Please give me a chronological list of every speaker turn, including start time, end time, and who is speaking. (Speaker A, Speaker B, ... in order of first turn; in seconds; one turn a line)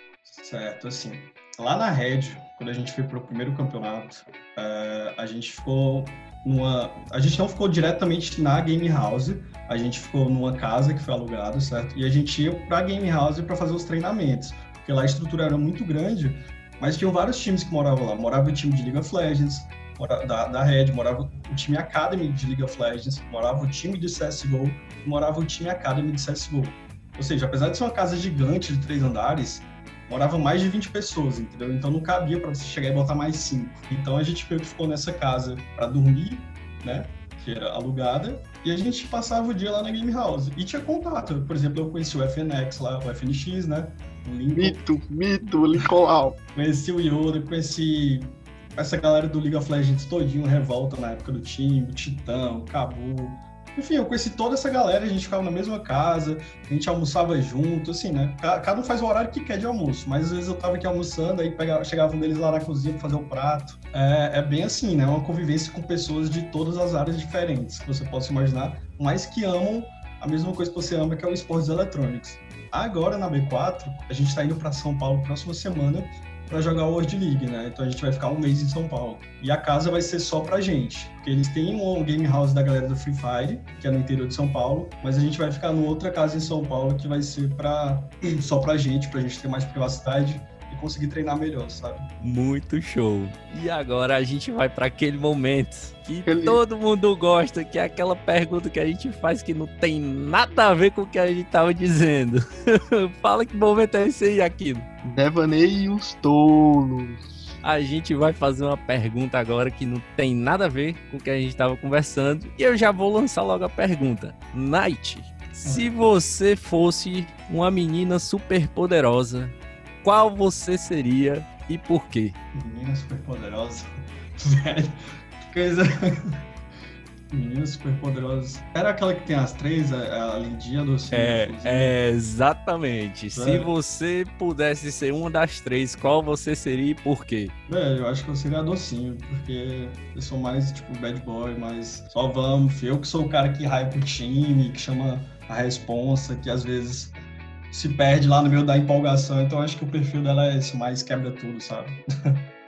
Speaker A: 0.2-44.8
Speaker B: 44.5-46.4
Speaker A: 46.5-92.1
Speaker C: 92.2-102.4
Speaker B: 96.2-96.6
Speaker C: 103.0-104.9
Speaker B: 105.0-107.5
Speaker C: 107.6-122.3
Speaker A: 115.6-116.1
Speaker A: 122.5-126.4
Speaker A: 127.3-132.0
Speaker C: 131.1-137.5
Speaker A: 133.3-133.7
Speaker A: 137.7-147.2
Speaker A: 147.7-152.4